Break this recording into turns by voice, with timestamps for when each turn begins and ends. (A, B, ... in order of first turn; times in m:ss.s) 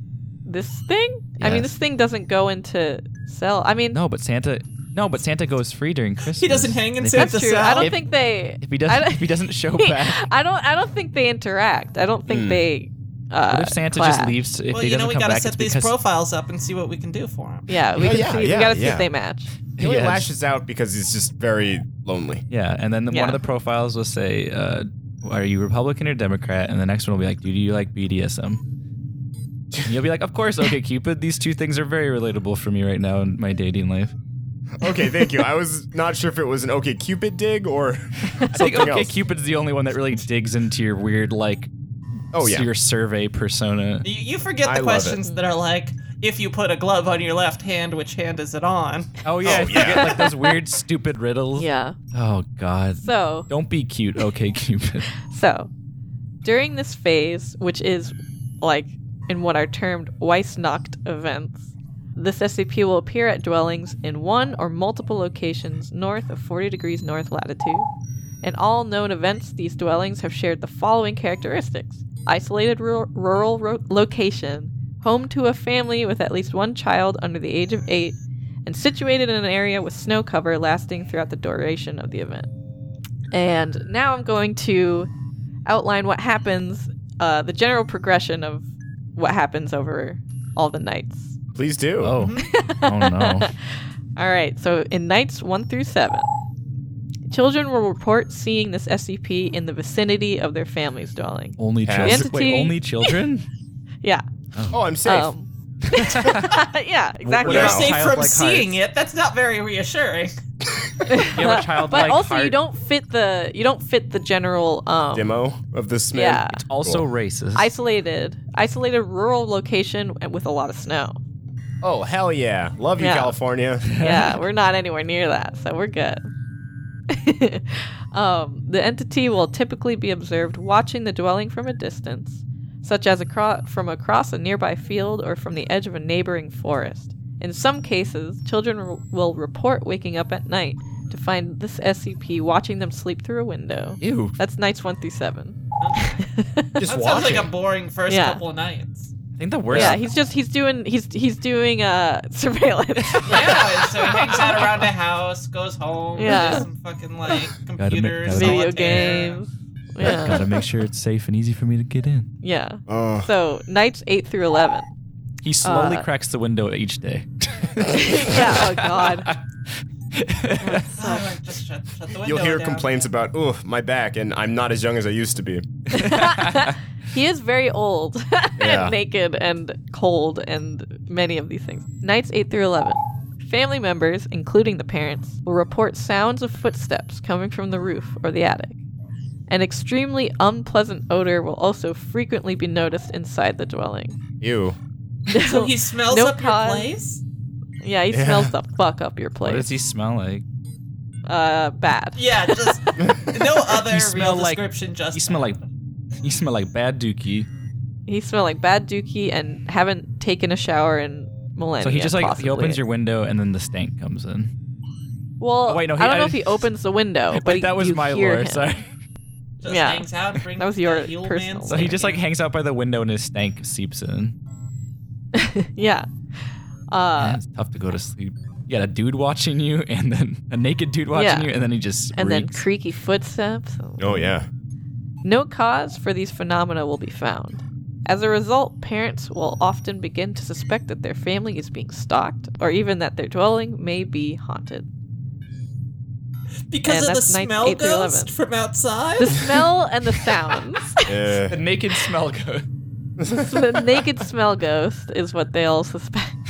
0:00.5-0:04.0 A
0:01.4-0:01.7 B
0:03.9-0:10.3 B
0:06.3-0:07.9 C
0:07.1-0:14.4 A
0:12.3-0:12.6 D
0:13.5-0:15.9 B
0:14.7-0:17.7 C
0:17.7-0:19.5 A
0:18.0-0:19.1 D
0:19.8-0:20.3 B
0:19.8-0:22.4 D
0:22.5-0:28.6 B
0:23.1-0:23.4 A
0:29.8-0:34.1 B
0:34.8-0:39.1 D
0:38.5-0:41.7 B
0:42.3-0:42.7 D
0:42.4-0:44.0 B
0:44.0-0:49.1 C
0:44.6-0:45.2 D
0:49.2-0:55.1 B
0:49.4-0:50.2 D
0:51.6-0:52.0 A
0:53.0-0:53.5 A
0:55.3-0:55.7 A
0:56.4-1:07.9 A
1:08.4-1:22.5 A
1:23.3-1:25.1 A
1:25.7-1:31.4 A
1:31.6-1:32.2 D
1:32.0-1:33.5 B
1:32.2-1:32.4 C
1:32.4-1:33.5 A
1:34.2-1:36.3 A
1:37.3-1:43.2 A
1:41.6-1:43.5 B
1:41.8-1:42.3 D
1:44.6-1:44.8 B
1:44.7-1:45.3 D
1:45.0-1:47.9 A
1:45.9-1:46.6 B
1:47.2-1:48.8 B
1:47.4-1:47.9 D
1:47.5-1:50.3 C
1:51.1-1:55.4 A
1:51.3-1:52.6 B
1:55.1-1:57.1 D
1:56.1-1:56.6 A
1:56.5-1:57.7 B
1:57.6-2:01.2 A
2:01.8-2:03.9 D
2:03.0-2:03.4 A
2:03.9-2:04.4 B
2:03.9-2:06.2 A
2:07.1-2:26.9 A
2:24.0-2:24.4 B
2:25.8-2:26.2 C
2:26.8-2:27.5 D
2:26.8-2:29.1 C
2:28.1-2:28.4 A
2:29.4-2:30.0 B
2:29.7-2:30.0 D
2:29.7-2:34.7 A
2:33.3-2:39.4 C
2:36.2-2:36.7 A
2:37.8-2:39.0 B
2:38.3-2:40.5 A
2:40.0-2:42.3 B
2:42.4-2:44.9 A
2:42.9-2:43.3 D
2:45.4-2:49.4 B
2:45.6-2:46.1 A
2:47.9-2:49.3 A
2:50.1-2:50.9 B
2:50.7-2:51.3 A
2:50.9-2:52.9 C
2:52.2-2:55.7 D
2:55.9-2:56.8 B
2:55.9-3:08.8 A
2:58.6-2:59.0 D
3:09.5-3:14.2 A
3:14.4-3:14.8 D
3:15.3-3:16.9 A
3:15.3-3:17.2 C
3:17.8-3:19.7 A
3:18.1-3:18.5 D
3:19.4-3:20.4 B
3:21.3-3:23.0 A
3:22.2-3:25.6 C
3:23.8-3:25.6 B
3:26.2-3:27.5 B
3:28.1-3:32.8 A
3:31.8-3:34.5 B
3:35.4-3:38.8 A
3:35.7-3:36.7 B
3:37.3-3:38.9 B
3:39.6-3:42.2 C
3:39.6-3:42.2 A
3:41.7-3:44.4 B
3:45.3-3:46.1 A
3:46.9-3:47.4 A
3:47.2-3:52.6 B
3:51.1-3:51.5 A
3:52.1-3:54.3 A
3:54.0-3:54.5 D
3:55.2-4:04.9 A
4:06.7-4:09.4 C
4:06.8-4:08.3 A
4:09.2-4:11.3 A
4:11.1-4:11.6 D
4:11.5-4:12.7 B
4:13.2-4:14.0 D
4:13.3-4:16.3 A